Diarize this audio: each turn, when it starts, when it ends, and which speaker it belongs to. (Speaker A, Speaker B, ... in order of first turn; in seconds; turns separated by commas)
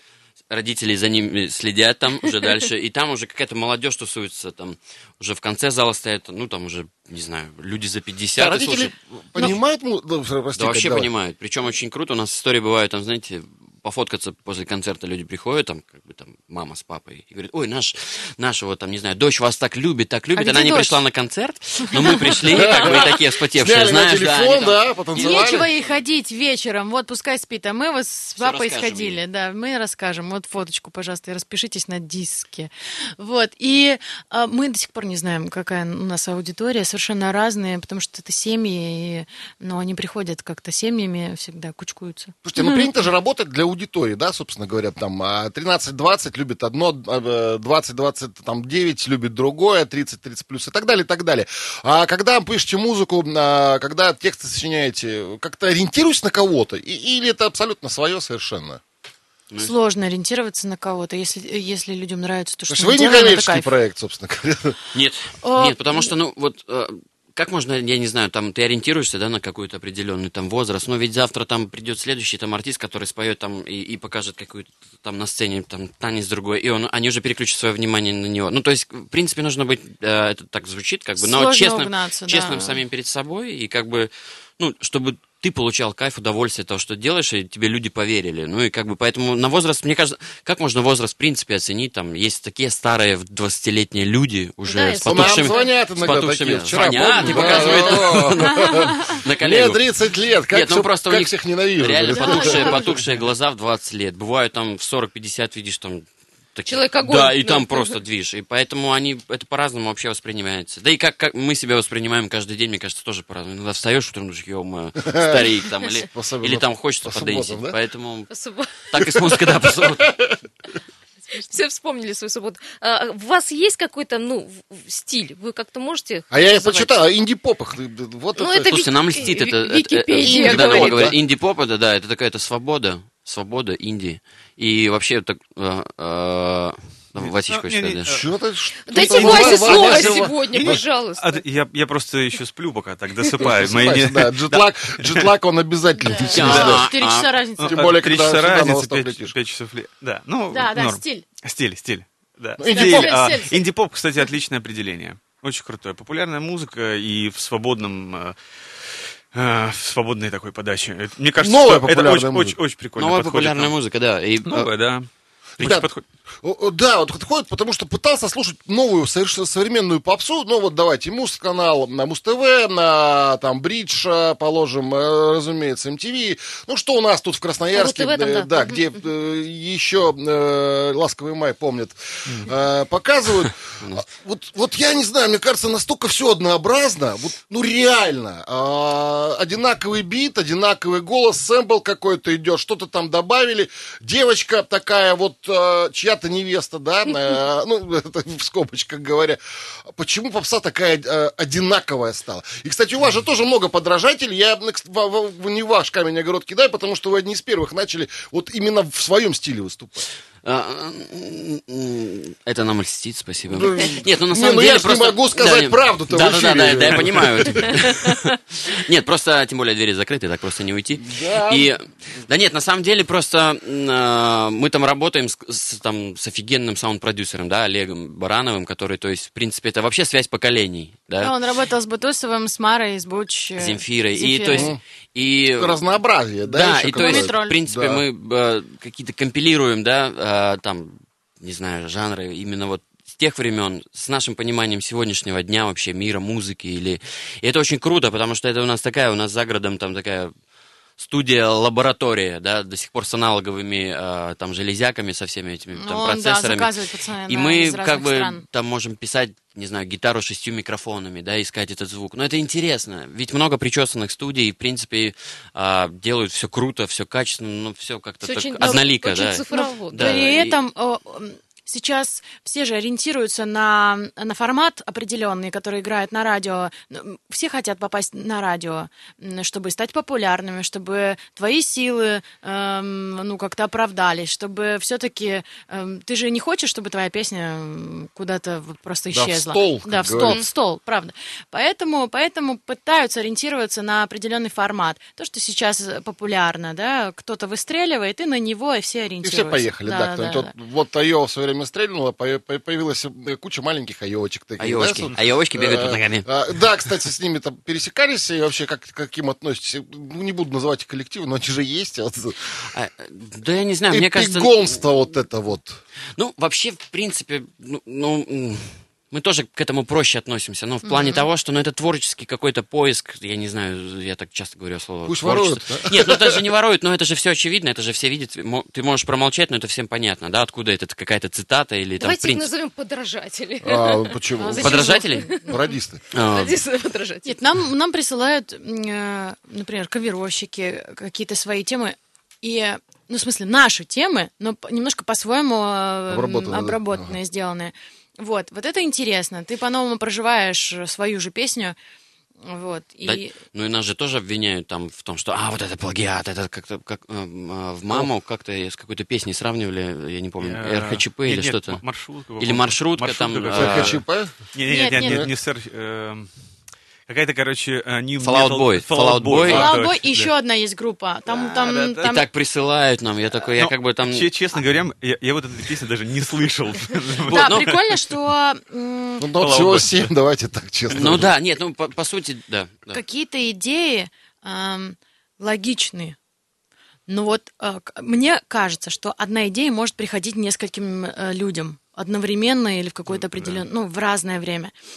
Speaker A: 0.5-8.9, Speaker B: 8.3-11.1, Speaker A: 10.6-26.0, Speaker C: 20.3-21.0, Speaker C: 22.0-22.8, Speaker B: 22.5-25.7, Speaker C: 25.1-42.8, Speaker A: 28.4-29.2, Speaker B: 42.4-58.8, Speaker C: 59.6-63.7, Speaker B: 62.7-64.8, Speaker A: 64.9-99.8, Speaker C: 65.4-66.1, Speaker C: 81.2-82.8, Speaker D: 94.7-95.7, Speaker B: 95.0-102.8, Speaker D: 97.3-97.8, Speaker A: 100.5-120.1, Speaker C: 102.2-102.9, Speaker D: 102.2-102.8, Speaker D: 106.7-107.9, Speaker B: 115.0-117.8, Speaker D: 118.3-118.7, Speaker B: 119.0-120.4, Speaker D: 121.3-126.9, Speaker B: 126.3-128.8, Speaker D: 128.4-131.1, Speaker A: 128.7-138.1, Speaker B: 130.2-131.2, Speaker E: 137.2-138.3, Speaker B: 138.1-140.8, Speaker E: 138.8-145.3, Speaker D: 138.9-141.4, Speaker B: 143.4-146.9, Speaker C: 146.1-147.9, Speaker A: 146.3-147.3, Speaker E: 146.4-146.7, Speaker E: 147.6-163.7, Speaker B: 147.7-149.3, Speaker C: 150.5-151.2, Speaker B: 152.6-153.2, Speaker C: 152.7-153.6, Speaker B: 161.4-162.6, Speaker A: 162.9-164.9, Speaker E: 164.4-166.0, Speaker B: 165.6-165.9, Speaker B: 166.4-199.4, Speaker D: 177.7-178.7, Speaker B: 199.9-210.1, Speaker A: 210.4-231.3, Speaker B: 213.5-217.9, Speaker B: 221.0-221.7, Speaker C: 231.2-234.7, Speaker A: 233.5-235.8, Speaker B: 234.5-234.8, Speaker B: 235.6-238.0, Speaker A: 236.4-250.3, Speaker C: 236.9-237.6, Speaker A: 251.0-256.7, Speaker C: 255.8-258.4, Speaker A: 257.3-270.6, Speaker D: 268.2-270.2, Speaker C: 269.5-300.5, Speaker B: 289.1-290.4, Speaker B: 299.2-312.5, Speaker A: 304.6-306.3, Speaker A: 312.7-314.9, Speaker B: 313.9-315.8, Speaker A: 316.1-332.5, Speaker C: 320.8-321.2, Speaker B: 325.0-326.4, Speaker D: 332.0-335.5, Speaker B: 333.6-336.0, Speaker C: 334.4-335.6, Speaker A: 334.6-335.3, Speaker A: 336.1-336.6, Speaker D: 336.1-337.3, Speaker C: 337.2-351.8, Speaker B: 346.1-347.1, Speaker C: 352.4-353.3, Speaker A: 353.0-364.0, Speaker E: 360.4-366.6, Speaker B: 363.5-365.3, Speaker C: 364.7-365.2, Speaker E: 367.1-370.3, Speaker A: 368.2-369.7, Speaker C: 369.4-372.2, Speaker E: 371.3-372.1, Speaker A: 372.0-374.3, Speaker E: 373.6-377.9, Speaker A: 377.3-377.7, Speaker C: 377.3-379.3, Speaker B: 379.2-381.3, Speaker E: 379.4-380.1, Speaker A: 380.9-383.0, Speaker E: 381.0-381.2, Speaker C: 382.9-386.1, Speaker C: 387.1-394.7, Speaker E: 393.1-393.6